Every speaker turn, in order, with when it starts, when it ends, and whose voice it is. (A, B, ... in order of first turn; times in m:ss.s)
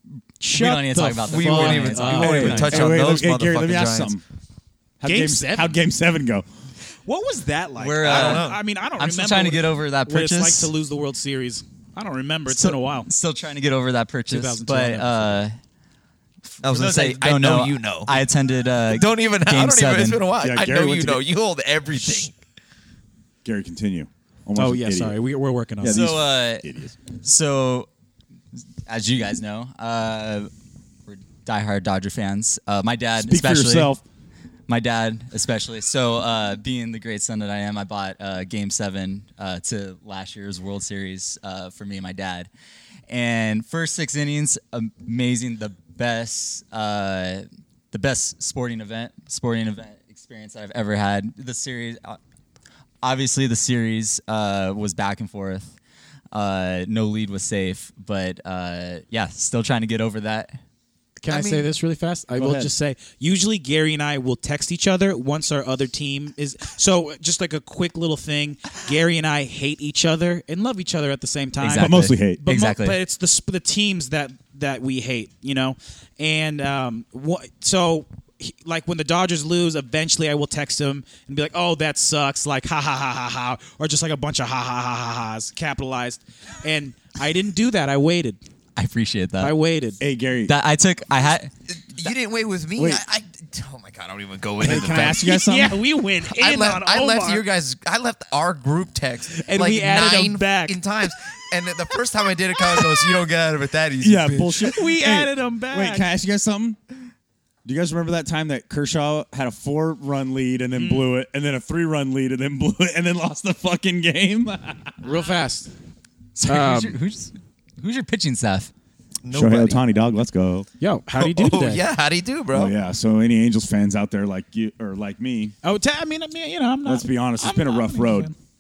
0:00.4-0:02.8 A
0:00.5-0:03.0 B
0:01.3-0:04.2 C
0:02.2-0:04.2 D
0:05.0-0:06.4 D
0:05.0-0:05.8 A
0:07.0-0:13.1 A
0:07.8-0:10.7 B
0:08.0-0:08.6 C
0:12.5-0:15.5 B
0:14.3-0:15.4 A
0:16.5-0:20.2 B
0:16.6-0:18.2 C
0:18.9-0:22.4 C
0:20.4-0:21.2 D
0:23.4-0:25.2 D
0:24.6-0:26.0 A
0:25.8-0:27.0 D
0:25.9-0:27.9 B
0:28.8-0:30.5 B
0:31.1-0:33.9 B
0:33.2-0:34.0 D
0:34.7-0:42.5 B
0:43.1-0:52.2 B
0:53.0-0:55.8 B
0:56.3-1:00.6 B
1:01.2-1:28.4 A
1:01.2-1:01.6 C
1:02.4-1:02.7 D
1:11.6-1:13.0 B
1:11.8-1:12.4 D
1:28.8-1:29.5 B
1:29.4-1:30.0 A
1:30.0-1:30.5 D
1:30.5-1:31.5 B
1:31.7-1:35.3 C
1:32.8-1:33.0 D
1:34.6-1:35.8 D
1:34.6-1:37.4 A
1:36.3-1:44.7 C
1:39.3-1:40.8 A
1:44.0-1:46.8 D
1:44.7-1:46.1 A
1:47.6-1:55.0 D
1:50.7-1:51.1 A
1:55.0-1:55.7 A
1:56.3-1:58.7 B
1:56.5-1:57.0 A
1:59.2-1:59.8 C
1:59.3-2:00.7 D
2:00.8-2:01.8 A
2:01.2-2:02.7 C
2:02.5-2:05.5 D
2:05.6-2:08.3 A
2:06.8-2:08.3 D